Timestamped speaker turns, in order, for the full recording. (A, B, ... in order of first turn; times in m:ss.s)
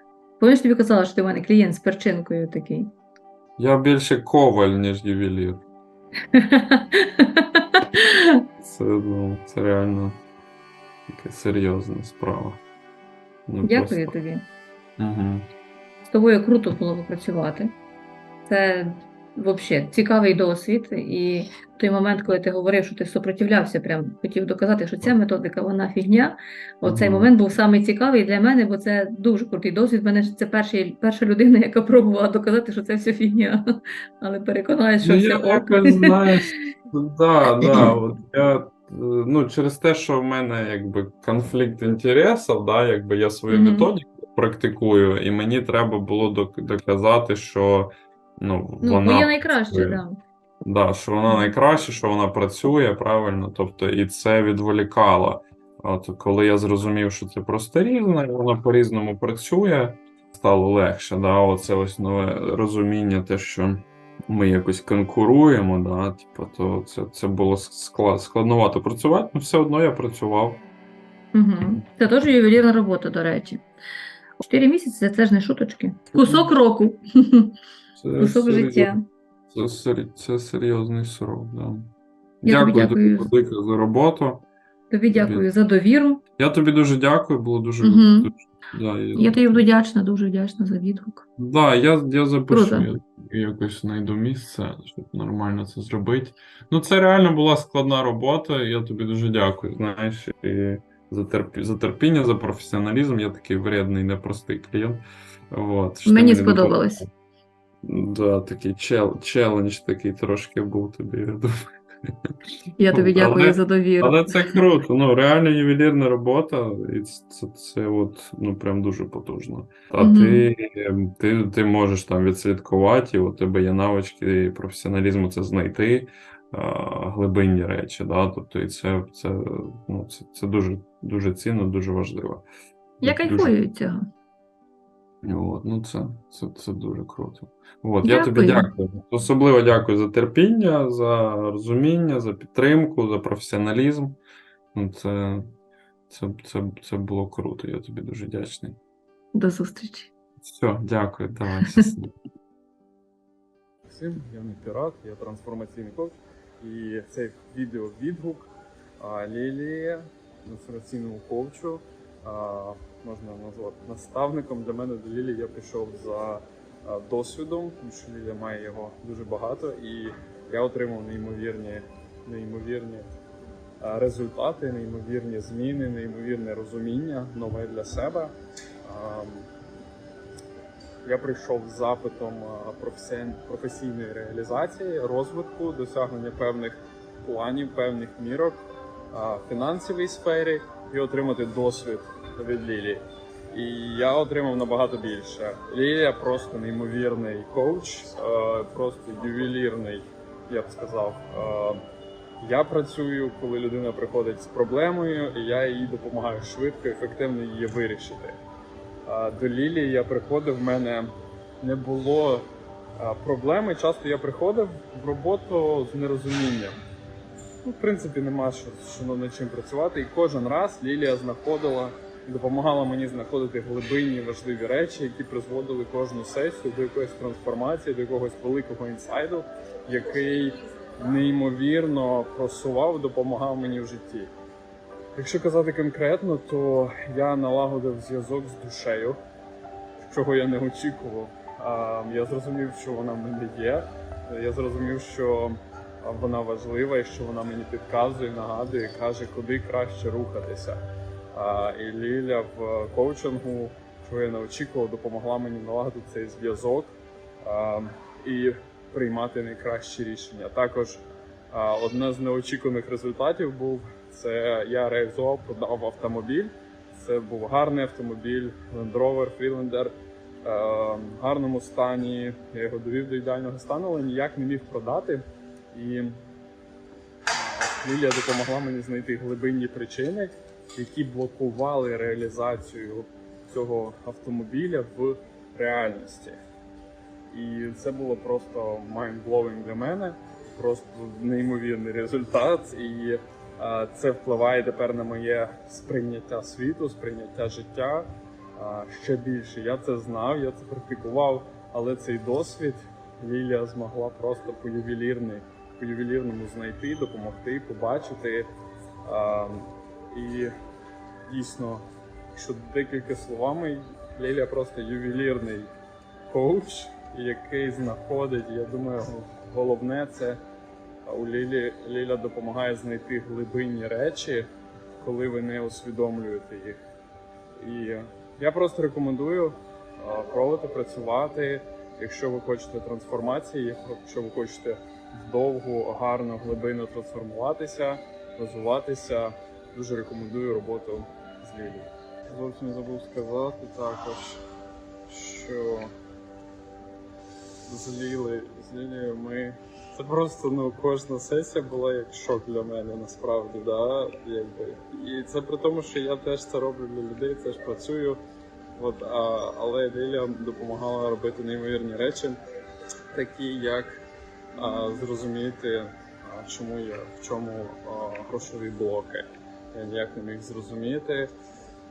0:00.4-0:02.9 A
0:03.6-0:05.6 B
0:06.3-0:08.3 A
0:08.6-0:10.2 B
0:11.1-0:12.6 B
0:13.5-0:14.1 B
0:13.6-0:14.4 A
0:15.0-0:15.4 B
0:16.1-0:17.7 A
0:18.4-0:33.6 A
0:26.8-0:27.3 B
0:34.2-0:36.6 A
0:35.0-0:47.9 B
0:37.5-0:37.9 A
0:43.5-0:43.9 A
0:48.4-0:50.0 B
0:48.8-0:50.2 A
0:50.6-1:10.6 B
0:51.2-0:51.5 A
1:11.3-1:13.6 A
1:14.4-1:17.5 A
1:18.0-1:18.8 B
1:18.2-1:19.0 A
1:19.5-1:21.9 B
1:22.4-1:24.4 B
1:22.4-1:23.3 A
1:24.9-1:26.2 A
1:25.1-1:25.4 B
1:26.4-1:29.6 B
1:27.8-1:28.3 A
1:29.1-1:31.2 A
1:31.4-1:45.0 B
1:32.5-1:32.9 A
1:45.5-1:47.1 B
1:46.0-1:47.0 A
1:47.8-1:51.5 B
1:52.0-1:52.3 B
1:52.8-1:54.6 A
1:52.9-2:12.4 B
2:00.0-2:00.5 A
2:13.0-2:13.5 B
2:13.0-2:14.0 A
2:15.2-2:24.2 B
2:18.0-2:18.7 A
2:24.7-2:25.4 B
2:26.1-2:28.8 B
2:29.3-2:30.1 A
2:30.4-2:32.1 B
2:31.6-2:31.9 A
2:33.9-2:38.5 C
2:39.0-2:53.0 C
2:53.8-2:58.3 C
2:58.8-2:59.4 C
3:01.0-3:08.6 C
3:09.1-3:21.8 C
3:22.4-3:28.4 C
3:29.1-3:32.4 C
3:33.0-3:36.8 C
3:37.6-3:54.3 C
3:55.1-3:59.2 C
4:00.1-4:10.8 C
4:11.3-4:16.9 C
4:17.4-4:29.9 C
4:30.4-4:36.2 C
4:37.3-4:46.4 C
4:47.3-5:08.5 C
5:09.0-5:10.5 C
5:11.3-5:15.7 C
5:16.3-5:20.4 C
5:21.0-5:24.5 C
5:25.0-5:26.8 C
5:27.6-5:44.4 C
5:45.1-5:45.9 C
5:47.7-5:58.2 C
5:58.8-6:02.4 C
6:03.1-6:04.0 C
6:04.6-6:11.3 C